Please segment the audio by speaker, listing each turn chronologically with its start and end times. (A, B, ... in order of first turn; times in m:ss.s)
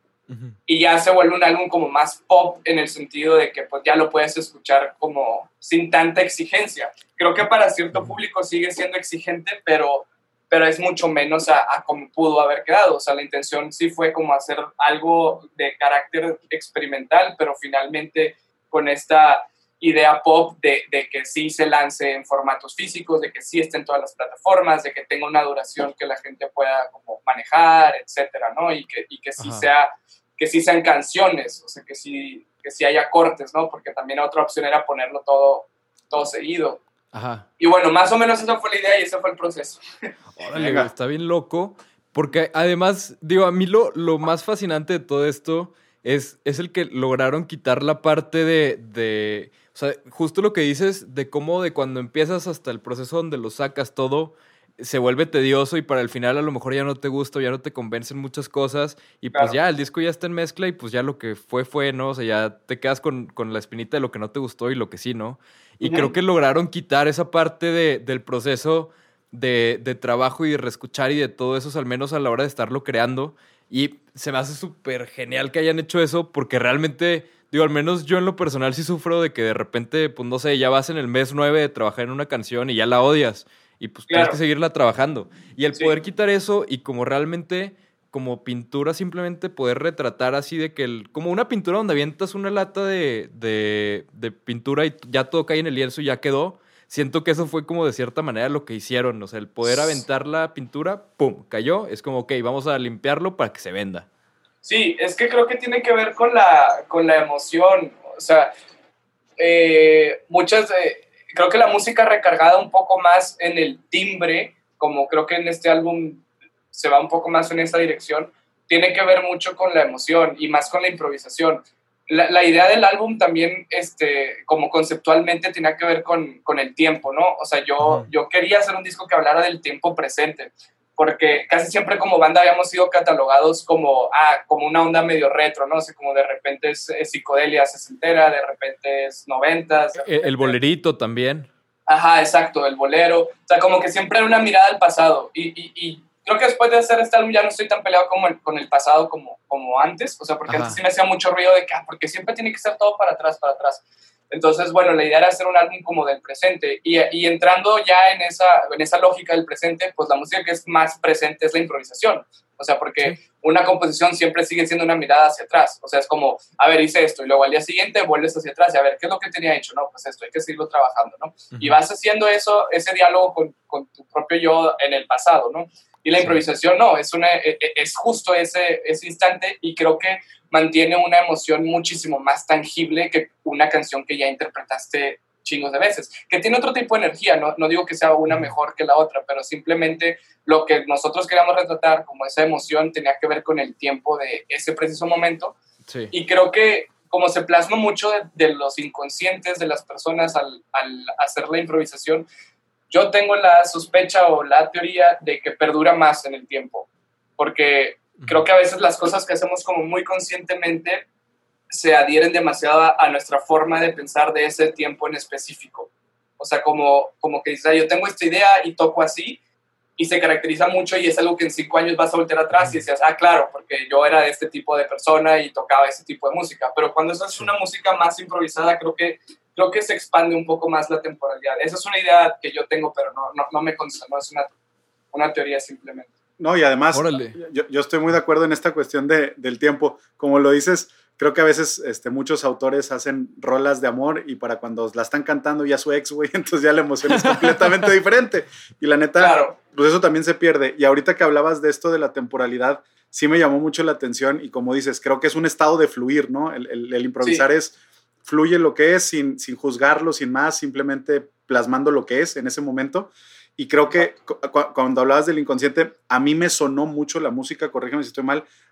0:00.3-0:00.6 A
0:00.7-0:36.8 B
0:29.4-0:29.7 A
0:37.1-0:37.5 A
0:37.6-0:40.1 B
0:40.4-1:44.1 A
0:40.6-0:40.9 C
1:05.8-1:06.1 B
1:24.1-1:24.4 B
1:44.6-1:48.5 B
1:49.4-2:20.6 B
2:07.8-2:08.1 A
2:20.0-2:21.5 A
2:21.9-3:15.6 B
2:30.5-2:30.8 A
2:51.5-2:51.8 A
3:15.9-3:16.1 A
3:16.1-3:22.3 B
3:22.9-3:31.0 B
3:28.2-3:28.5 A
3:31.7-3:39.4 B
3:40.0-3:54.5 B
3:42.6-3:42.8 A
3:47.3-3:47.5 A
3:55.1-3:56.1 B
3:56.4-4:28.5 C
3:56.9-3:57.4 A
4:07.1-4:07.9 A
4:09.2-4:09.6 B